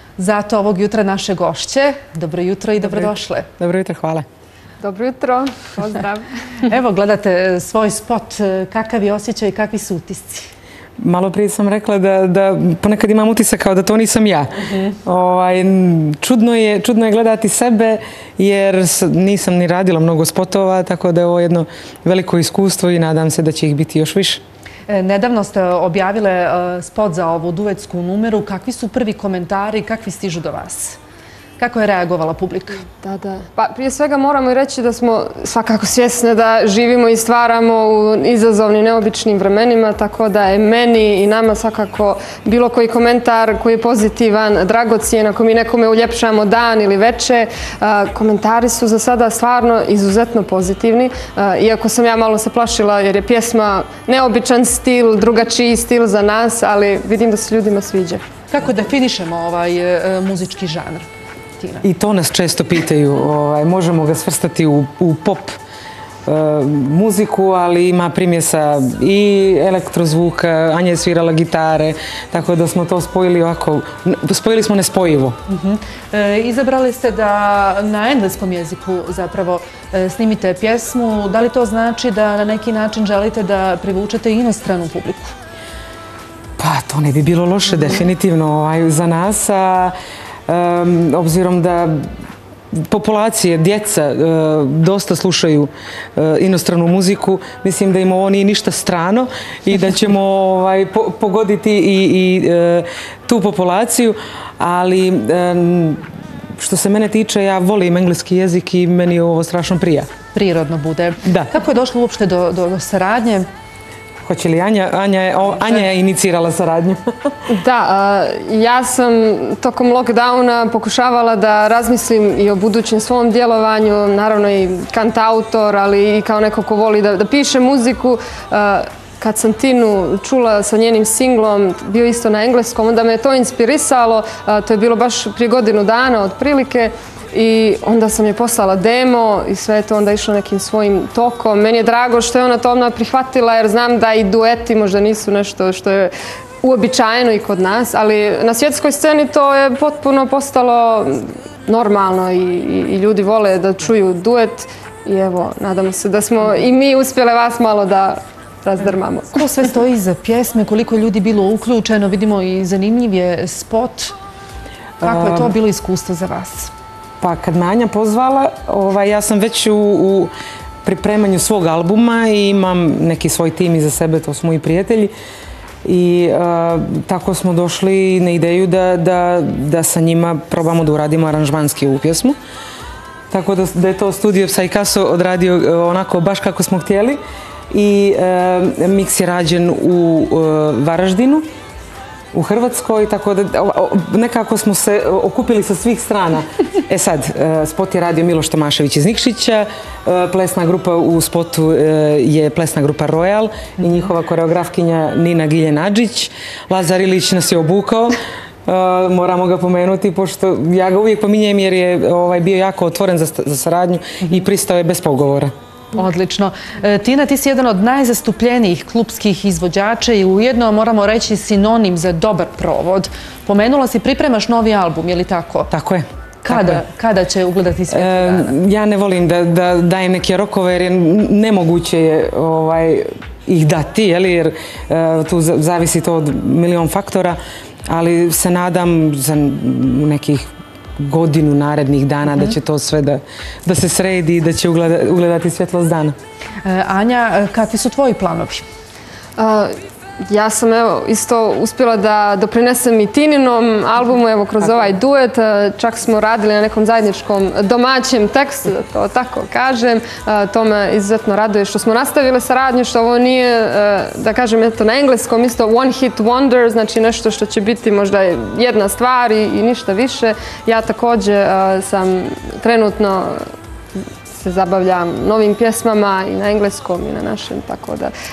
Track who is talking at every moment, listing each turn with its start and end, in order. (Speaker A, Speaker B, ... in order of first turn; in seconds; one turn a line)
Speaker A: 0.2-3.5
Speaker B: 3.6-4.2
Speaker C: 4.8-6.3
Speaker A: 6.7-10.5
Speaker B: 11.0-24.4
Speaker A: 24.9-31.0
Speaker A: 31.6-32.9
Speaker C: 33.0-58.2
Speaker A: 58.5-61.1
Speaker A: 61.6-61.9
Speaker B: 61.8-65.5
Speaker B: 66.3-75.4
Speaker A: 75.5-85.3
Speaker B: 86.6-89.9
Speaker B: 90.5-92.1
Speaker B: 92.7-106.0
Speaker B: 106.6-110.1
Speaker A: 110.3-113.5
Speaker B: 111.2-111.5
Speaker B: 114.2-117.0
Speaker C: 117.5-146.1
Speaker C: 146.6-159.5
Speaker A: 159.3-164.2
Speaker B: 165.0-165.5
Speaker A: 165.0-166.7
Speaker B: 167.2-170.3
Speaker B: 170.8-175.1
Speaker B: 175.8-182.4
Speaker B: 183.3-191.4
Speaker B: 192.3-215.5
Speaker A: 215.9-225.7
Speaker B: 225.7-226.8
Speaker A: 226.4-228.5
Speaker B: 227.9-240.5
Speaker B: 241.0-246.2
Speaker A: 246.6-248.7
Speaker C: 249.4-249.7
Speaker C: 250.3-273.4
Speaker C: 274.3-278.1